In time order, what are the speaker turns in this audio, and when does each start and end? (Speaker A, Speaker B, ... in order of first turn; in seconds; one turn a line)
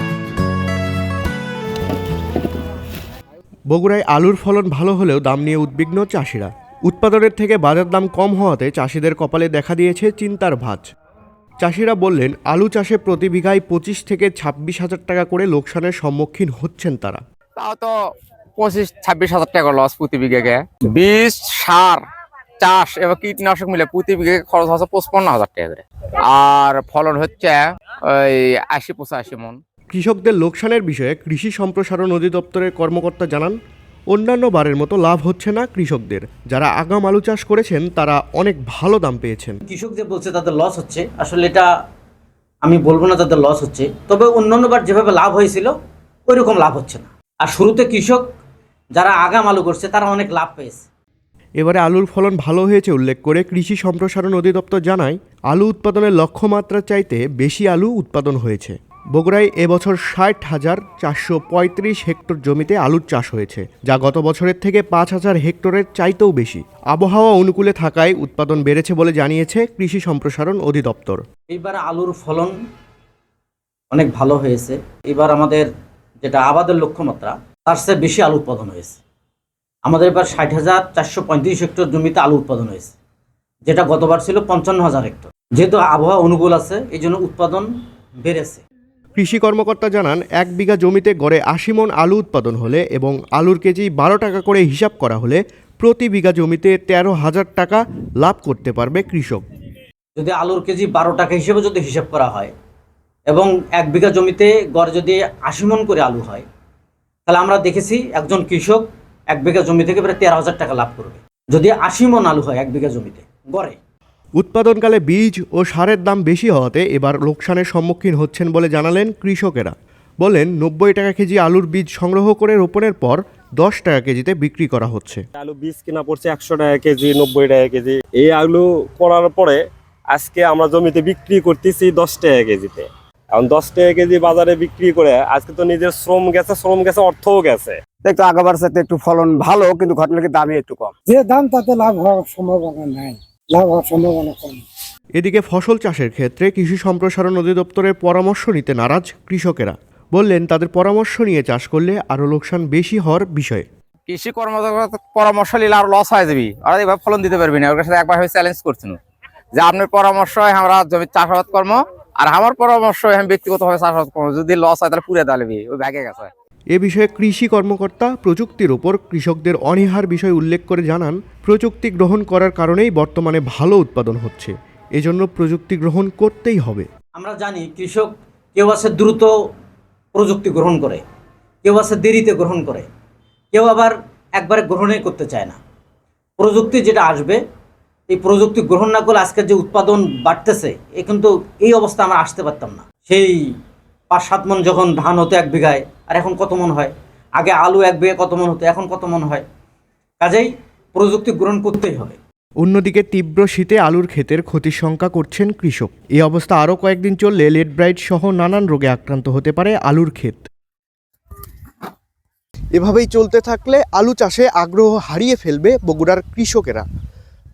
Speaker A: 3.7-10.9
Speaker A: 11.6-17.2
Speaker B: 17.6-17.9
Speaker B: 18.6-22.0
Speaker B: 22.6-29.6
Speaker A: 29.9-33.5
Speaker A: 34.1-39.6
Speaker C: 39.6-41.7
Speaker C: 42.6-45.7
Speaker C: 46.3-48.2
Speaker C: 49.0-50.8
Speaker A: 51.6-71.2
Speaker C: 71.5-72.5
Speaker C: 73.9-75.7
Speaker C: 76.2-79.0
Speaker C: 79.8-82.9
Speaker C: 83.7-87.7
Speaker C: 88.2-88.6
Speaker A: 89.2-99.4
Speaker C: 100.2-102.5
Speaker C: 103.3-106.4
Speaker C: 107.3-113.8
Speaker A: 114.4-125.2
Speaker D: 125.3-129.6
Speaker D: 130.1-137.8
Speaker E: 138.0-140.9
Speaker F: 141.1-144.6
Speaker A: 145.2-153.7
Speaker B: 154.1-159.0
Speaker B: 159.5-166.3
Speaker A: 166.7-176.9
Speaker C: 177.1-179.3
Speaker C: 180.1-181.0
Speaker C: 181.6-182.8
Speaker C: 183.5-185.6
Speaker C: 186.4-187.4
Speaker C: 188.1-193.5
Speaker C: 194.1-199.4
Speaker C: 200.2-202.2
Speaker A: 202.6-210.5
Speaker A: 212.7-216.8